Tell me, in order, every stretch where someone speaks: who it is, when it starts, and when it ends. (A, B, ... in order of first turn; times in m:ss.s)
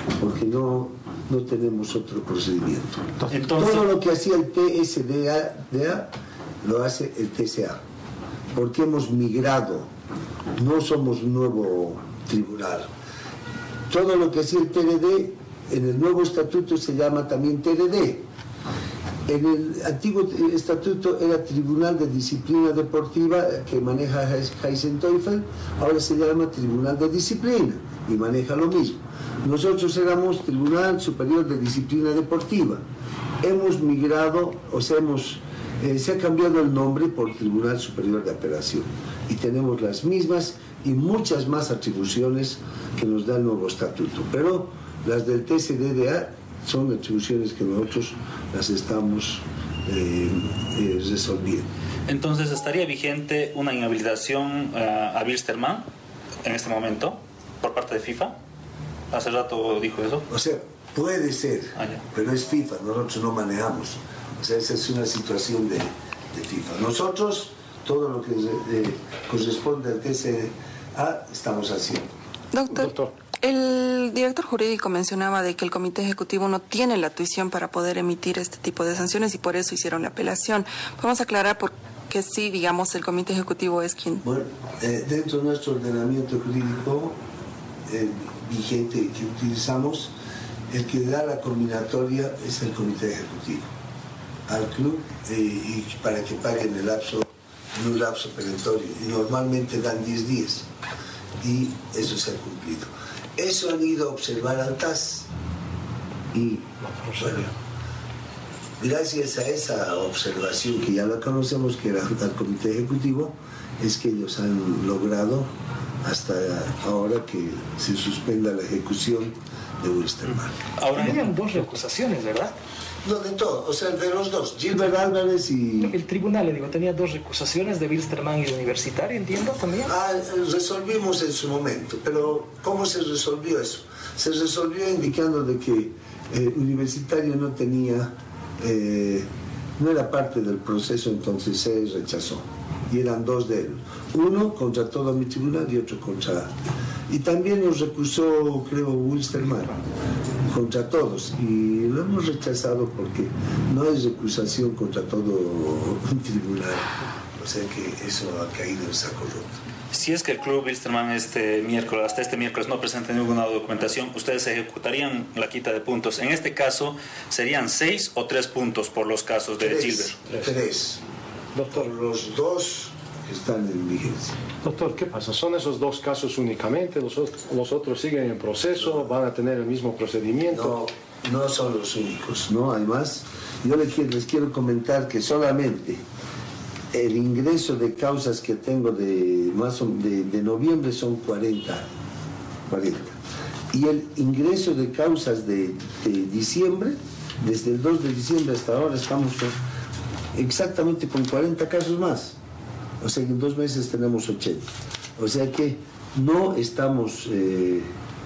0:00.2-0:07.8 A
0:03.3-0:03.9 B
0:08.5-0:09.9 A
0:10.6-0:12.9 A
0:13.9-0:18.3 A
0:19.3-0:32.8 A
0:33.4-0:51.7 A
0:52.1-0:55.9 B
0:56.4-0:58.4 B
0:59.1-1:00.2 B
1:00.3-1:12.1 A
1:01.8-1:02.0 B
1:12.5-1:12.9 C
1:12.7-1:13.1 D
1:13.4-1:24.2 C
1:24.2-1:27.2 A
1:27.9-1:30.1 A
1:30.7-1:33.7 A
1:34.5-1:40.7 A
1:41.4-1:45.3 A
1:46.3-1:47.5 A
1:48.8-1:55.5 A
1:56.0-2:00.6 A
2:00.8-2:01.3 B
2:01.0-2:02.6 E
2:03.0-2:06.0 A
2:05.8-2:09.9 E
2:09.9-2:26.5 A
2:27.1-2:29.8 A
2:30.4-2:39.6 A
2:39.9-2:50.2 B
2:49.6-2:51.0 A
2:51.6-2:51.9 D
2:51.7-2:54.4 A
2:54.6-3:00.8 D
3:00.5-3:06.0 A
3:06.9-3:11.9 A
3:12.7-3:13.2 A
3:13.7-3:19.6 A
3:20.3-3:22.4 A
3:23.0-3:27.9 A